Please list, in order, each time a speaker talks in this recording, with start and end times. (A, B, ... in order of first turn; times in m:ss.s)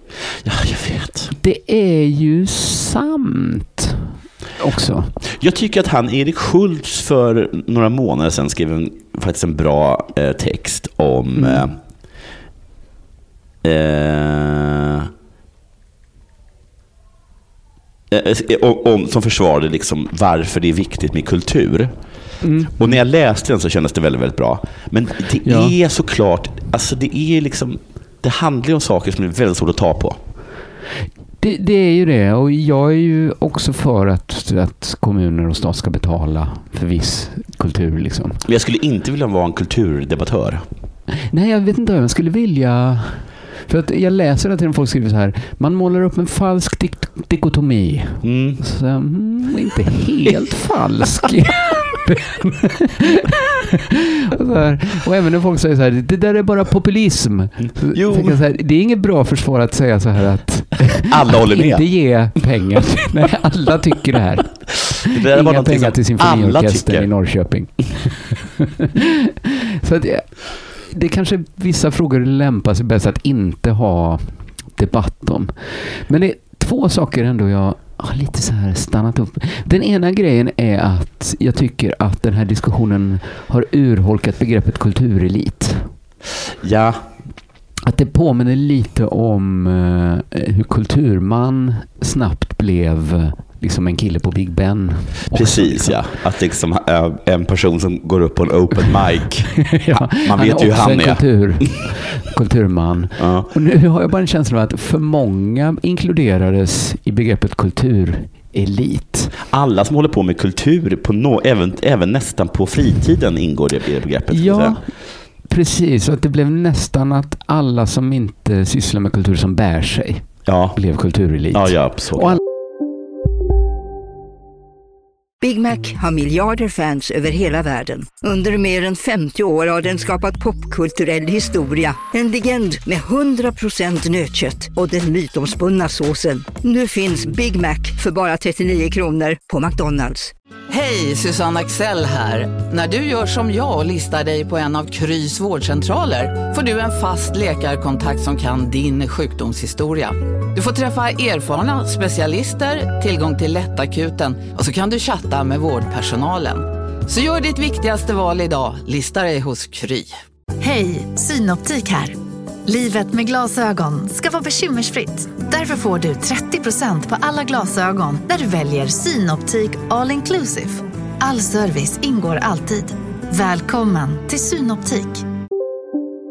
0:00.4-0:01.3 A
0:01.4-0:05.2 B
0:05.2-0:11.8 A
0:11.4-0:11.6 B
0:13.6-0:15.1 A
0:18.1-0:21.9 A
0:22.4-0:23.0 B
0:22.7-0:30.2 A
0:25.4-0:25.7 B
0:31.4-0:38.4 B
0:38.4-0:40.6 A
0:41.3-0:53.2 B
0:48.2-0:48.6 A
0:54.2-1:08.6 B
0:57.9-0:58.4 A
1:01.1-1:01.8 A
1:05.1-1:07.1 A
1:09.7-1:25.9 B
1:26.6-1:27.0 A
1:27.8-1:36.0 B
1:35.3-1:41.7 A
1:39.6-1:49.3 B
1:43.2-1:43.5 A
1:49.5-1:54.8 A
1:54.3-2:02.4 B
2:00.4-2:00.8 A
2:01.5-2:02.4 A
2:05.4-2:20.3 C
2:20.7-2:40.2 D
2:40.6-2:42.2 E
2:42.7-2:55.2 E